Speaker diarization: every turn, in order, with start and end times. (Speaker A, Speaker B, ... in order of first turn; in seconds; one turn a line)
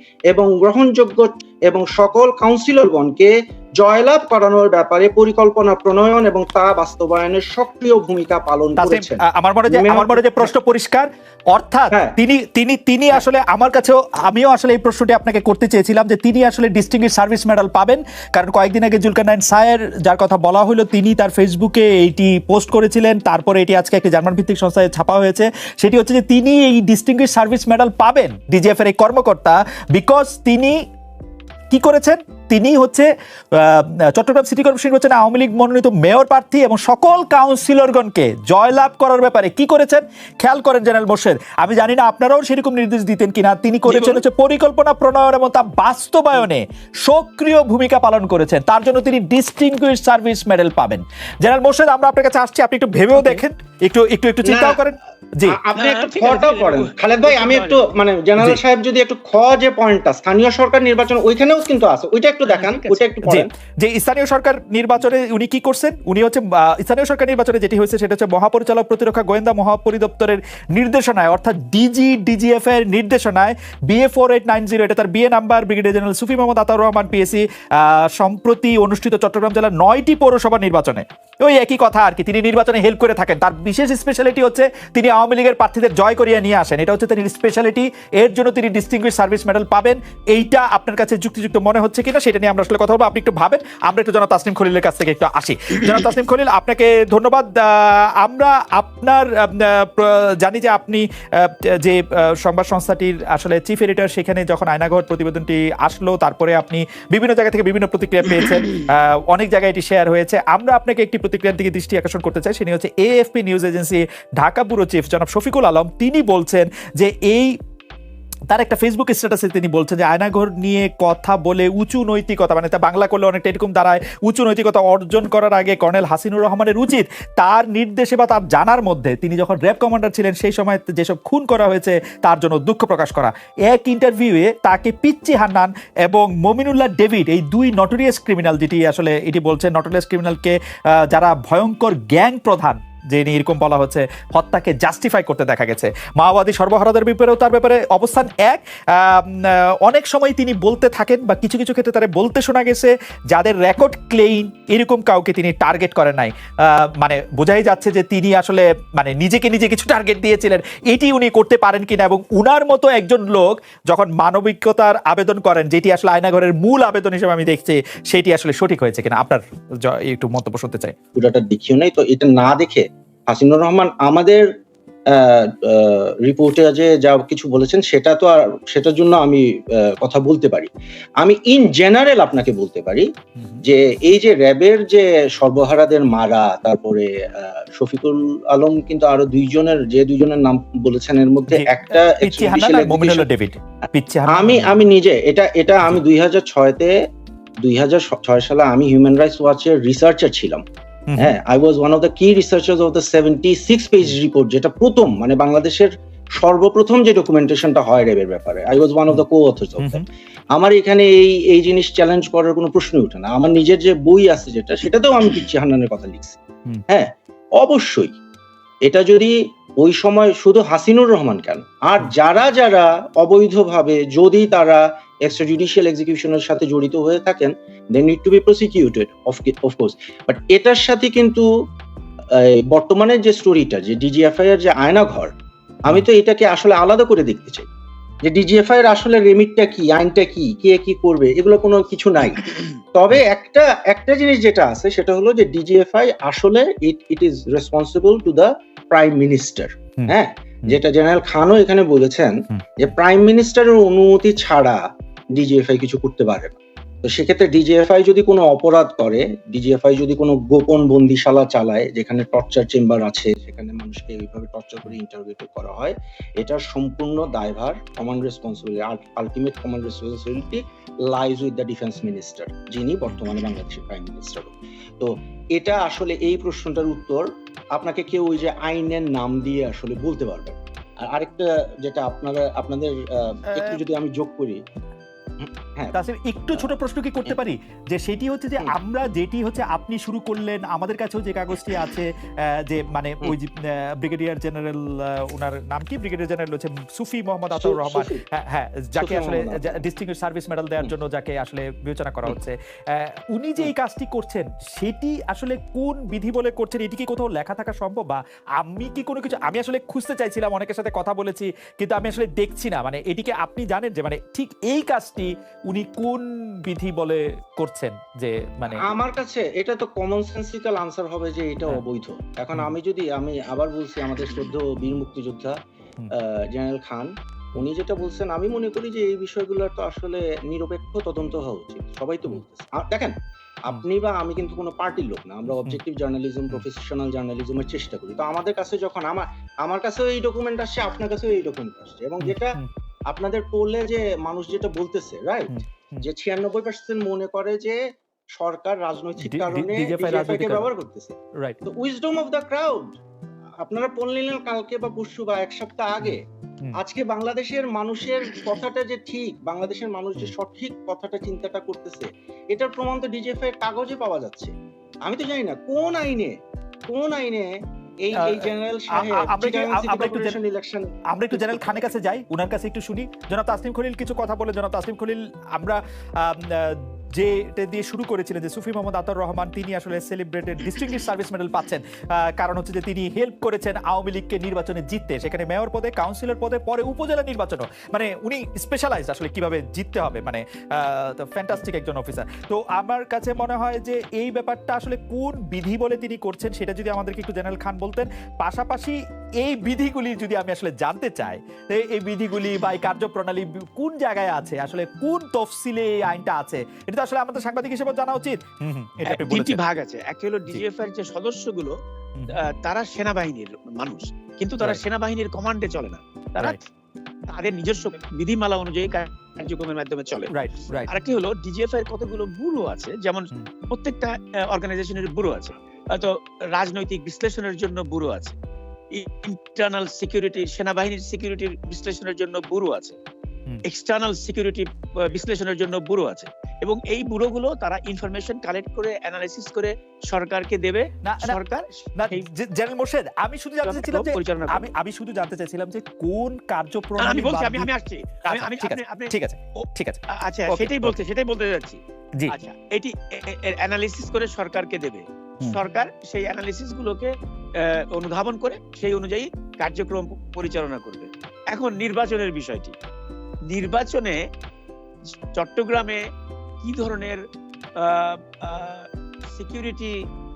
Speaker A: 0.3-10.5
Speaker B: 8.8-30.8
Speaker A: 11.9-12.2
Speaker B: 31.7-55.6
Speaker C: 43.9-44.2
Speaker C: 53.1-53.4
Speaker A: 54.5-54.8
Speaker A: 55.5-63.5
Speaker C: 55.8-57.9
Speaker C: 62.5-63.1
Speaker B: 63.3-117.5
Speaker B: 118.5-156.3
Speaker B: 157.0-170.9
Speaker A: 171.2-174.5
Speaker A: 175.1-179.4
Speaker A: 180.0-183.1
Speaker B: 183.4-183.6
Speaker A: 183.6-193.3
Speaker B: 191.5-194.8
Speaker A: 194.3-196.9
Speaker A: 197.6-200.6
Speaker B: 201.1-201.4
Speaker A: 201.2-210.0
Speaker B: 209.8-210.0
Speaker A: 210.6-216.4
Speaker A: 216.9-218.1
Speaker A: 218.9-231.5
Speaker A: 232.4-235.3
Speaker A: 235.8-237.7
Speaker A: 238.2-254.8
Speaker A: 255.3-284.6
Speaker A: 285.4-285.9
Speaker B: 285.9-318.8
Speaker A: 297.5-298.2
Speaker A: 299.0-299.8
Speaker A: 318.7-325.6
Speaker A: 326.2-333.1
Speaker A: 333.7-345.5
Speaker B: 335.5-335.8
Speaker B: 342.2-342.7
Speaker B: 345.5-346.1
Speaker A: 346.0-347.8
Speaker A: 348.4-353.0
Speaker B: 349.2-350.7
Speaker A: 353.6-356.2
Speaker B: 356.0-356.8
Speaker A: 356.8-364.5
Speaker A: 365.1-366.4
Speaker A: 366.9-367.5
Speaker A: 368.0-371.9
Speaker B: 368.3-370.4
Speaker B: 371.1-409.6
Speaker C: 409.1-411.7
Speaker C: 412.6-416.6
Speaker C: 417.3-420.3
Speaker B: 420.3-420.9
Speaker C: 420.9-428.4
Speaker C: 428.9-433.0
Speaker C: 433.7-442.3
Speaker B: 441.1-441.4
Speaker B: 442.0-447.7
Speaker C: 443.6-444.7
Speaker C: 447.0-449.1
Speaker B: 448.3-451.0
Speaker C: 450.1-462.8
Speaker C: 463.5-464.2
Speaker C: 465.4-466.0
Speaker C: 466.6-467.2
Speaker C: 467.8-469.9